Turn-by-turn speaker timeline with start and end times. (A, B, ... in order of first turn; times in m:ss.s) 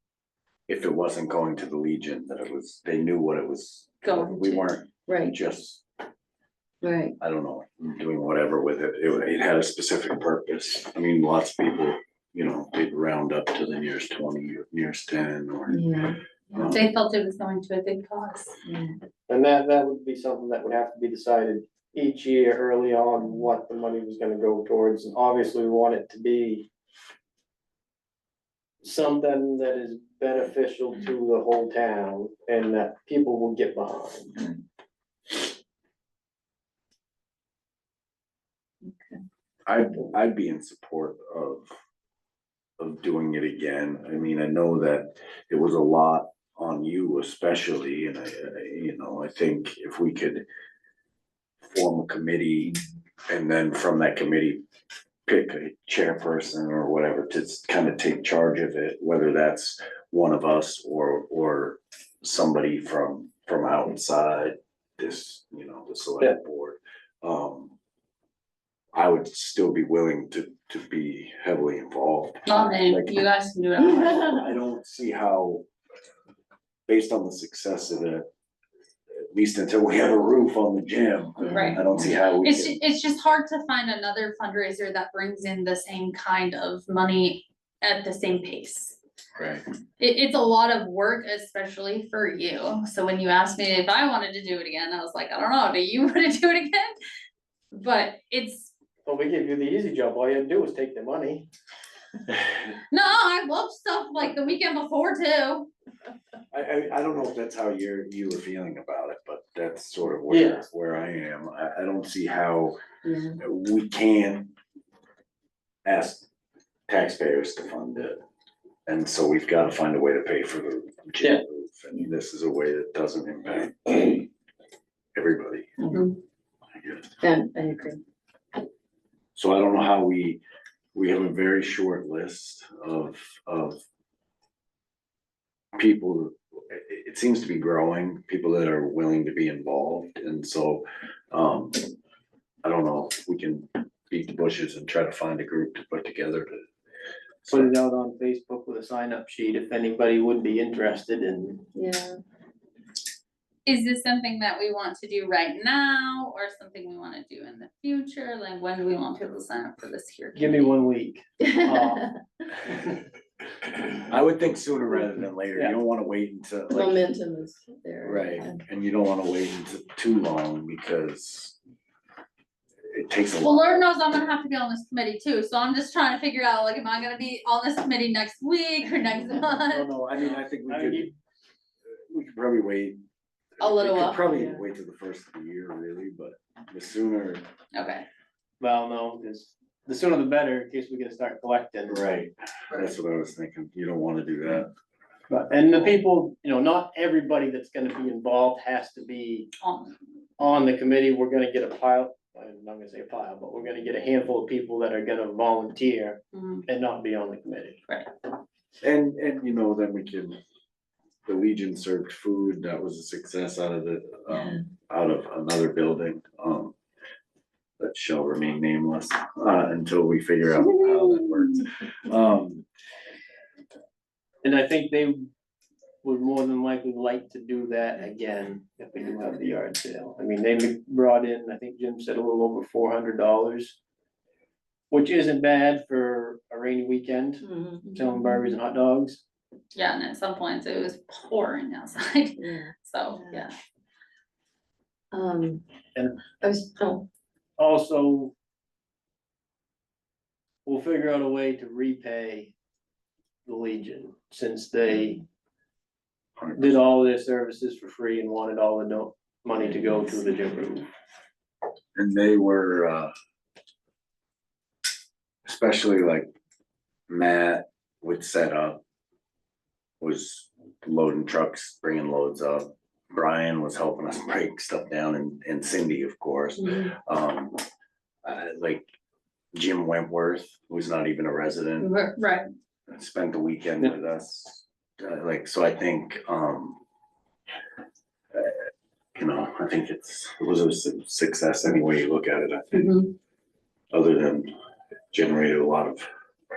0:00.7-0:05.8 A
0:04.0-0:04.7 B
0:05.1-0:05.4 C
0:06.8-0:07.2 C
0:07.2-0:15.9 A
0:15.7-0:16.2 C
0:16.5-0:16.8 A
0:16.6-0:18.6 B
0:18.6-0:18.9 C
0:19.3-0:26.7 D
0:28.8-0:34.4 D
0:38.8-0:39.2 C
0:39.7-0:41.7 A
0:42.8-0:50.5 A
0:51.7-0:54.6 A
0:55.3-1:07.8 A
1:08.9-1:13.2 A
1:12.5-1:14.4 B
1:14.1-1:14.5 C
1:14.1-1:15.6 A
1:16.9-1:18.3 A
1:19.3-1:22.8 A
1:21.4-1:21.8 C
1:21.5-1:29.0 B
1:29.4-1:29.6 A
1:30.0-1:37.0 B
1:37.7-1:38.7 B
1:39.0-1:41.5 D
1:42.9-1:45.7 B
1:46.5-1:52.8 A
1:50.3-1:50.6 D
1:53.0-1:53.4 C
1:53.4-1:54.5 A
1:55.8-1:56.3 A
1:56.9-1:58.2 A
1:58.9-2:04.3 A
2:05.2-2:05.8 A
2:05.8-2:06.0 C
2:06.8-2:07.2 A
2:07.2-2:08.0 C
2:09.4-2:10.4 A
2:11.0-2:13.8 A
2:15.8-2:21.9 A
2:22.6-2:26.6 A
2:27.4-2:27.7 A
2:27.5-2:31.6 D
2:31.7-2:32.2 C
2:33.7-2:40.8 B
2:40.4-2:42.1 D
2:43.8-2:47.0 A
2:46.7-2:48.6 C
2:48.0-2:51.6 A
2:52.9-2:53.8 A
2:53.4-2:59.9 B
2:59.6-3:01.1 A
3:00.7-3:01.1 D
3:02.1-3:03.0 A
3:03.6-3:07.4 A
3:03.6-3:04.2 B
3:07.7-3:08.1 B
3:08.6-3:12.0 D
3:11.9-3:14.7 A
3:15.3-3:19.5 D
3:19.6-3:20.0 B
3:20.4-3:27.8 D
3:26.3-3:26.6 B
3:28.8-3:30.4 A
3:31.3-3:36.8 A
3:37.8-3:42.6 A
3:44.4-3:45.2 D
3:46.0-3:53.8 D
3:54.9-3:57.4 D
3:57.4-3:57.8 C
3:57.8-3:58.4 B
3:57.9-3:59.2 D
3:59.7-4:03.5 B
4:02.4-4:03.5 C
4:05.1-4:05.6 C
4:06.0-4:06.2 D
4:06.4-4:07.0 C
4:07.6-4:08.3 D
4:10.7-4:12.5 D
4:13.5-4:15.2 D
4:16.4-4:16.7 A
4:16.6-4:20.9 D
4:22.0-4:23.1 A
4:25.5-4:26.3 A
4:27.1-4:28.8 A
4:30.0-4:37.6 A
4:36.6-4:36.9 B
4:38.2-4:38.9 A
4:39.5-4:41.9 A
4:41.8-4:42.5 B
4:42.9-4:46.8 A
4:49.2-4:52.9 A
4:52.7-4:53.1 B
4:53.9-4:54.5 A
4:55.1-4:56.1 A